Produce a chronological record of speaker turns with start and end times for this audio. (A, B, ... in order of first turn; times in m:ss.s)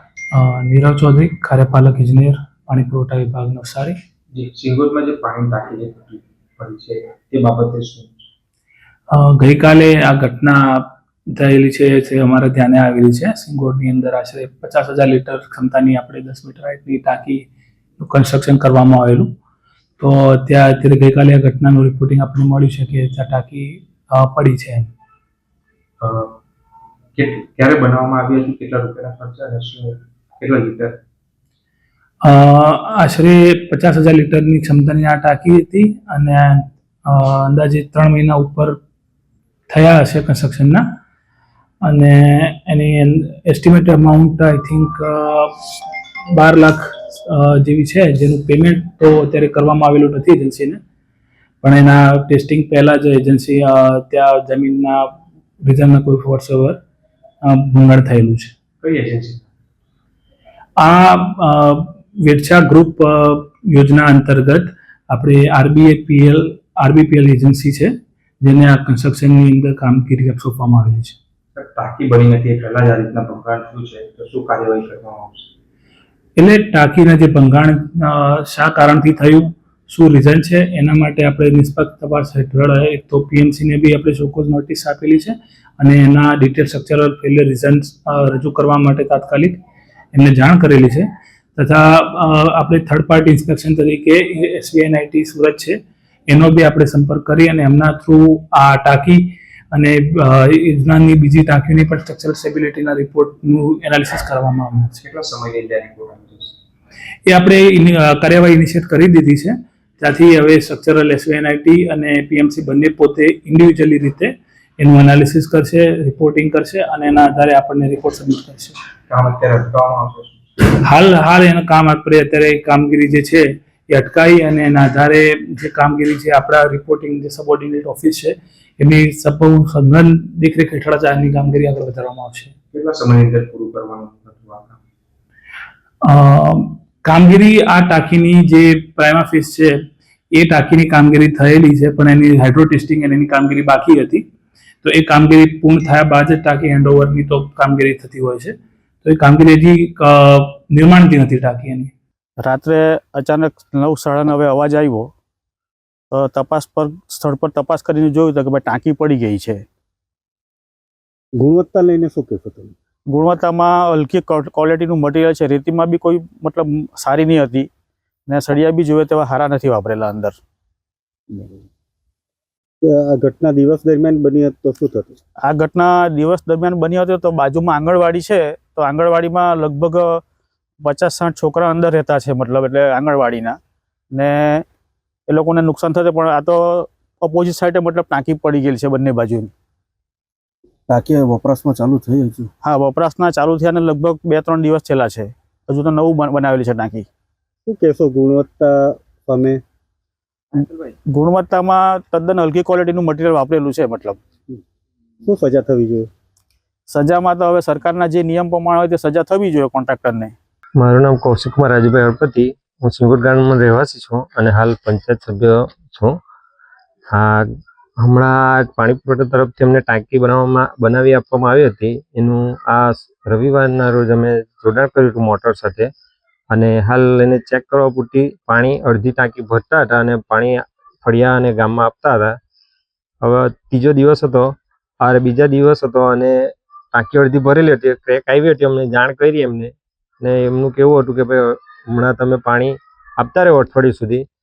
0:00.3-0:03.9 A
0:04.3-0:08.2 B
0:09.1-0:17.4 A
0:18.0-0:19.3 A
0:20.0-0:24.9 A
0:26.0-0:26.4 B
0:27.1-0:31.0 B
0:32.2-0:38.8 A
0:39.7-0:40.8 A
0:41.8-0:45.5 A
0:46.3-0:50.8 A
0:51.6-0:55.1 A
0:55.6-0:56.8 A
0:57.4-0:58.5 A
0:58.8-0:59.4 B
1:00.8-1:11.2 A
1:11.5-1:15.5 B
1:16.4-1:29.6 A
1:30.1-1:31.0 A
1:31.6-1:35.8 A
1:36.3-1:44.9 A
1:45.0-1:46.6 B
1:47.2-1:58.8 A
1:59.1-2:00.4 B
2:00.8-2:12.5 A
2:12.7-2:14.8 B
2:16.0-2:19.7 A
2:20.3-2:24.2 A
2:24.8-2:31.9 A
2:32.4-2:35.1 C
2:36.1-2:39.6 C
2:41.4-2:42.7 D
2:43.1-2:47.7 C
2:48.3-2:50.4 C
2:51.3-2:51.6 D
2:52.8-2:55.2 D
2:55.4-3:00.2 C
3:00.8-3:03.6 C
3:04.1-3:04.6 C
3:05.3-3:09.5 C
3:10.9-3:12.5 D
3:12.5-3:17.1 C
3:17.6-3:19.6 D
3:20.5-3:24.2 C
3:25.2-3:26.1 D
3:26.9-3:30.3 C
3:30.8-3:36.2 E
3:37.1-3:37.4 E
3:38.0-3:45.9 E
3:46.5-3:52.3 E
3:53.2-3:54.5 E
3:55.0-3:56.3 E
3:56.9-4:04.2 E